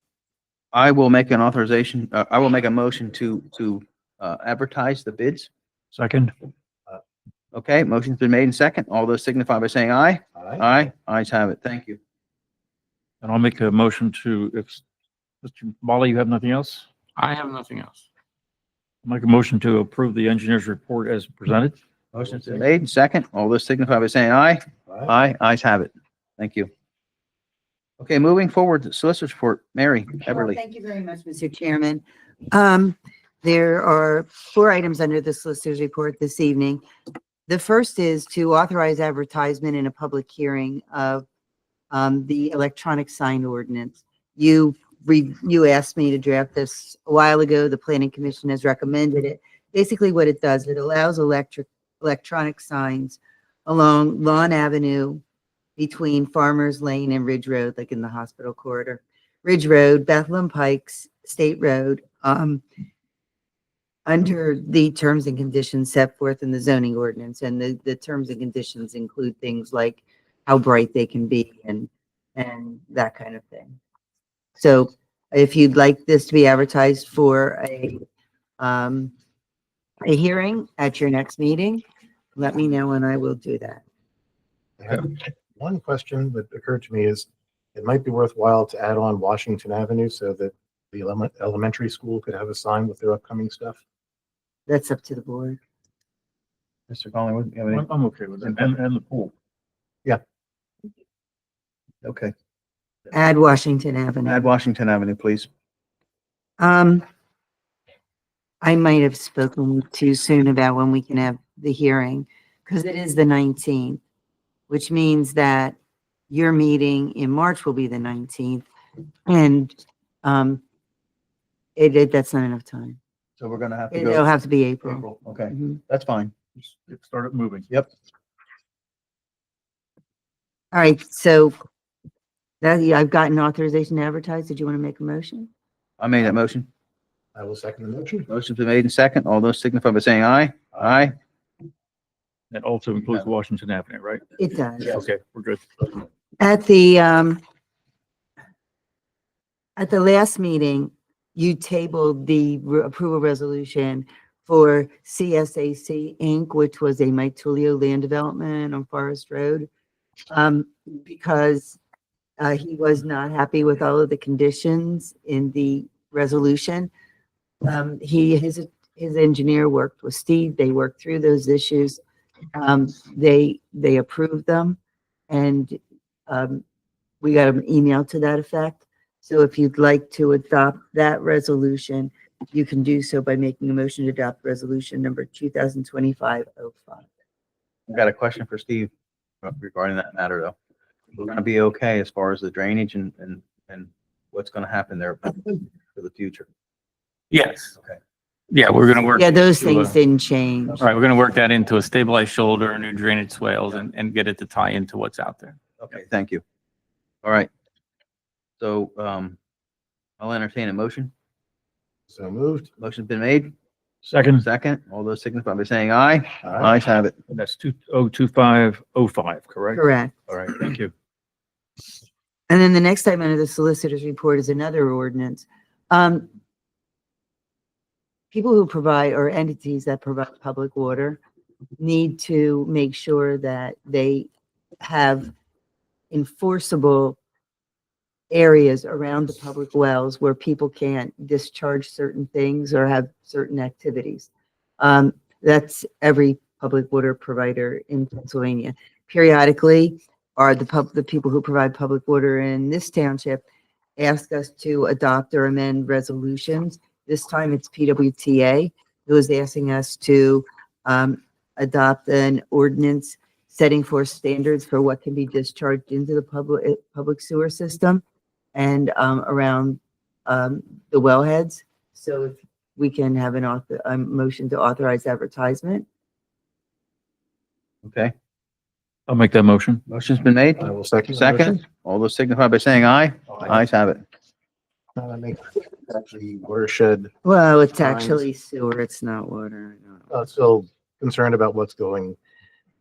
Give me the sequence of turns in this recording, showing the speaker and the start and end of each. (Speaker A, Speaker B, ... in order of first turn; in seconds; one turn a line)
Speaker A: 0.7-5.5
Speaker B: 5.9-6.3
Speaker A: 7.5-12.0
Speaker C: 10.4-10.7
Speaker B: 13.2-14.8
Speaker B: 15.4-16.9
Speaker D: 17.2-18.0
Speaker B: 19.0-21.8
Speaker A: 22.1-26.7
Speaker A: 28.0-30.6
Speaker E: 30.3-36.8
Speaker E: 37.5-41.2
Speaker E: 41.9-55.2
Speaker E: 55.8-62.6
Speaker E: 64.1-73.8
Speaker E: 74.6-78.0
Speaker E: 78.6-79.1
Speaker E: 80.0-81.8
Speaker E: 82.4-83.8
Speaker C: 84.8-93.8
Speaker E: 94.7-95.6
Speaker A: 96.9-97.9
Speaker B: 97.7-99.3
Speaker A: 102.0-102.3
Speaker E: 103.1-104.5
Speaker A: 104.3-105.5
Speaker E: 106.6-107.0
Speaker E: 108.6-114.0
Speaker E: 114.7-115.8
Speaker E: 116.3-118.7
Speaker E: 119.3-120.6
Speaker E: 121.8-123.0
Speaker A: 123.4-124.2
Speaker E: 123.9-125.8
Speaker A: 124.9-126.3
Speaker B: 126.6-127.7
Speaker E: 130.7-131.6
Speaker E: 132.6-135.5
Speaker A: 136.0-136.7
Speaker C: 137.3-138.3
Speaker A: 138.3-141.2
Speaker B: 142.5-144.2
Speaker E: 144.4-145.0
Speaker B: 144.8-145.6
Speaker E: 146.4-147.4
Speaker E: 149.8-159.7
Speaker E: 160.3-161.8
Speaker E: 162.4-166.9
Speaker E: 167.6-172.0
Speaker E: 172.6-174.8
Speaker E: 175.3-176.6
Speaker E: 177.2-187.0
Speaker A: 187.9-188.9
Speaker A: 189.4-190.6
Speaker A: 191.2-196.5
Speaker D: 197.3-197.7
Speaker D: 198.5-199.9
Speaker E: 199.2-200.8
Speaker D: 200.8-205.6
Speaker A: 205.8-206.4
Speaker A: 207.2-207.5
Speaker A: 208.6-209.4
Speaker A: 210.2-211.1
Speaker C: 212.1-212.7
Speaker A: 212.8-213.5
Speaker B: 214.0-214.4
Speaker A: 214.4-217.2
Speaker C: 216.4-216.7
Speaker B: 217.3-219.8
Speaker E: 219.7-220.1
Speaker A: 220.3-220.5
Speaker B: 220.5-220.9
Speaker E: 222.5-226.3
Speaker E: 228.3-231.2
Speaker E: 231.8-234.3
Speaker E: 234.8-235.3
Speaker E: 236.1-237.2
Speaker E: 238.3-244.3
Speaker E: 244.8-253.4
Speaker E: 254.0-268.0
Speaker E: 268.6-275.9
Speaker A: 277.8-278.1
Speaker B: 279.1-279.8
Speaker A: 279.9-284.0
Speaker C: 280.6-281.6
Speaker C: 285.0-287.1
Speaker E: 287.2-290.1
Speaker C: 287.8-288.2
Speaker C: 290.1-292.2